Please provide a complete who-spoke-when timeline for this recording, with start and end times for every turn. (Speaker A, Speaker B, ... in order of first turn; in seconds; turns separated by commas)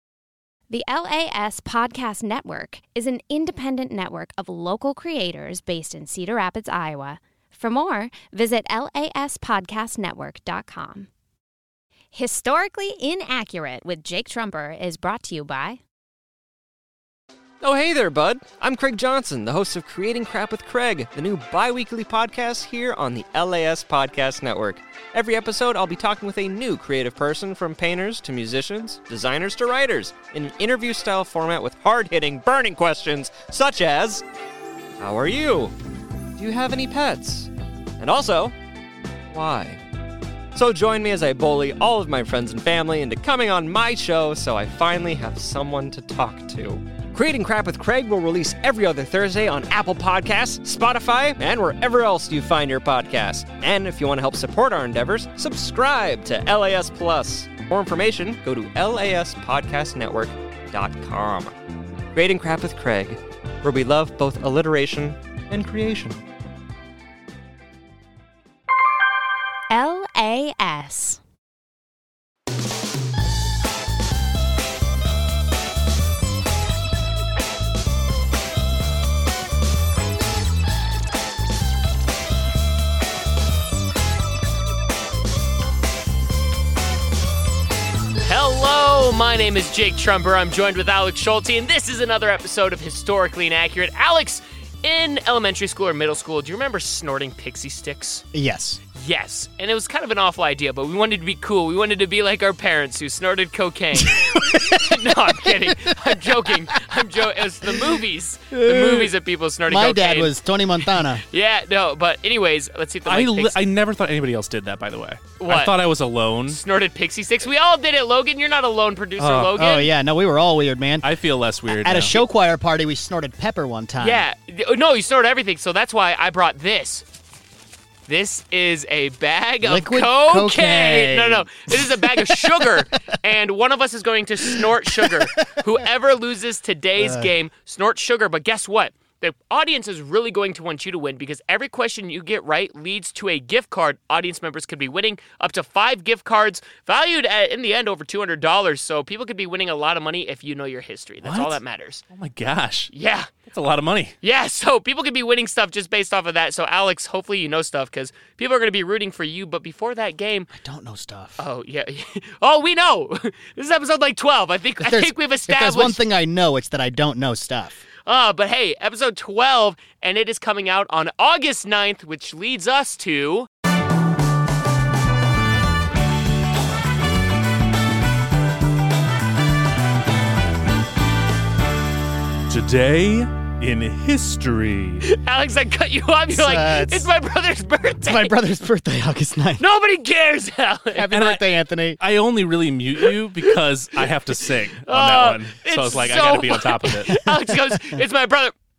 Speaker A: 0.7-11.1, Speaker A: 12.1-15.8, Speaker B: 17.6-34.2, Speaker B: 35.0-35.8, Speaker B: 36.4-38.5, Speaker B: 39.3-39.8, Speaker B: 40.5-61.5, Speaker B: 62.1-66.2, Speaker A: 69.7-71.2, Speaker C: 88.2-98.2, Speaker D: 98.3-98.8, Speaker C: 98.9-113.6, Speaker D: 104.0-106.6, Speaker D: 107.4-109.2, Speaker D: 109.7-111.2, Speaker E: 113.1-116.6, Speaker C: 115.4-115.7, Speaker C: 116.5-119.9, Speaker E: 119.2-119.6, Speaker D: 119.6-121.1, Speaker E: 121.0-122.2, Speaker D: 121.7-124.2, Speaker C: 124.0-127.1, Speaker C: 128.1-152.0, Speaker D: 129.6-132.9, Speaker D: 134.4-135.8, Speaker D: 137.0-137.3, Speaker E: 151.2-152.9, Speaker C: 152.9-153.3, Speaker E: 153.5-154.2, Speaker C: 154.2-160.5, Speaker D: 160.5-161.4, Speaker C: 161.4-166.0, Speaker D: 164.8-167.8, Speaker C: 168.1-173.5, Speaker E: 182.5-185.1, Speaker C: 185.1-188.4, Speaker D: 186.3-187.1, Speaker D: 188.1-189.6, Speaker C: 189.6-191.2, Speaker D: 190.9-192.0, Speaker E: 191.1-191.4, Speaker E: 192.0-197.2, Speaker C: 194.8-198.5, Speaker D: 197.1-198.0